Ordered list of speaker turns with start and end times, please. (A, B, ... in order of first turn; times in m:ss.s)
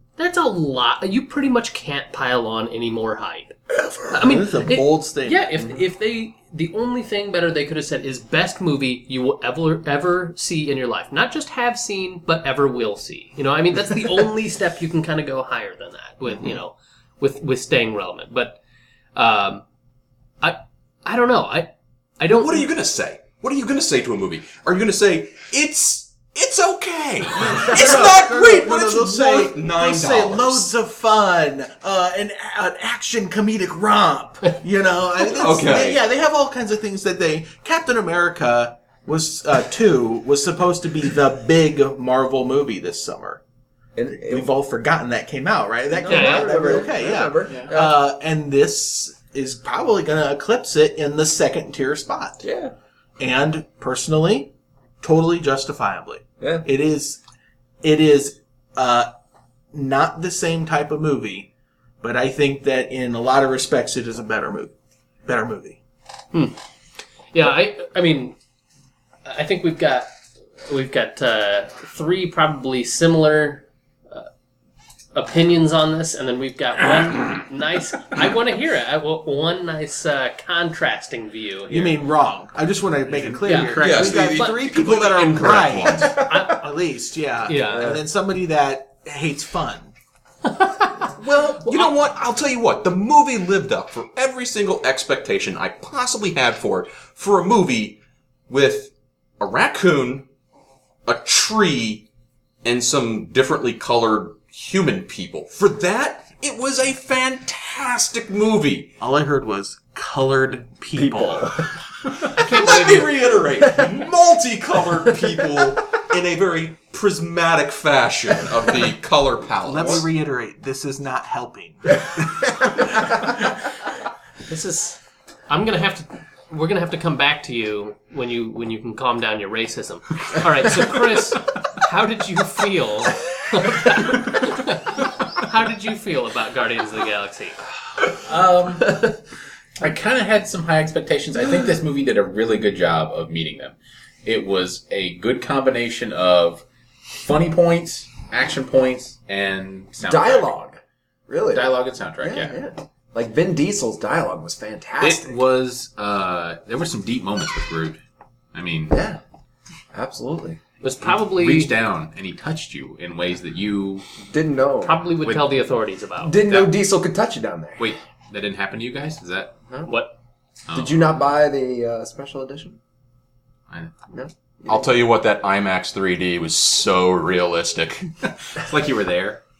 0:00.2-0:03.6 A
0:04.1-0:18.6 A
0:04.2-0:05.4 B
0:19.1-0:19.6 A
0:20.4-0:22.7 A
0:22.3-0:30.7 C
0:27.4-0:43.4 B
0:27.8-0:28.0 D
0:35.3-0:36.0 C
0:44.0-0:44.5 D
0:44.1-0:52.4 B
0:45.9-0:48.0 D
0:46.1-0:46.7 A
0:47.5-0:47.7 E
0:52.4-0:52.7 D
0:53.2-0:57.2 B
0:56.4-0:56.7 D
0:57.8-0:59.1 B
0:59.7-1:01.5 B
1:02.0-1:04.7 B
1:05.3-1:05.8 B
1:07.3-1:08.4 A
1:09.2-1:10.1 A
1:10.7-1:14.3 A
1:15.1-1:22.0 A
1:21.7-1:29.9 B
1:23.2-1:24.2 E
1:23.4-1:24.6 A
1:23.8-1:26.2 C
1:25.9-1:26.5 D
1:26.2-1:26.6 A
1:27.5-1:28.0 A
1:27.7-1:28.0 D
1:30.4-1:31.0 A
1:31.1-1:40.3 C
1:41.1-1:42.1 C
1:42.6-1:49.0 C
1:49.0-1:51.6 B
1:51.0-1:51.7 D
1:52.3-2:00.1 C
1:52.4-1:53.1 A
1:59.7-2:02.1 B
1:59.7-2:00.0 D
2:04.5-2:17.6 A
2:18.1-2:19.2 E
2:19.8-2:30.5 E
2:30.0-2:30.8 D
2:31.3-2:35.4 D
2:31.5-2:32.6 E
2:35.0-2:38.0 E
2:38.5-2:39.0 E
2:38.9-2:39.2 D
2:39.9-2:40.6 D
2:40.8-2:41.7 A
2:41.0-2:44.1 E
2:44.2-2:45.0 D
2:44.8-2:46.4 A
2:45.2-2:45.6 E
2:46.2-2:47.9 D
2:46.5-2:46.7 E
2:47.8-2:49.6 E
2:49.8-2:50.1 A
2:50.7-2:51.1 E
2:50.7-2:52.8 D
2:53.7-2:54.0 E
2:54.1-2:54.9 D
2:54.7-2:58.1 C
2:58.5-2:59.4 E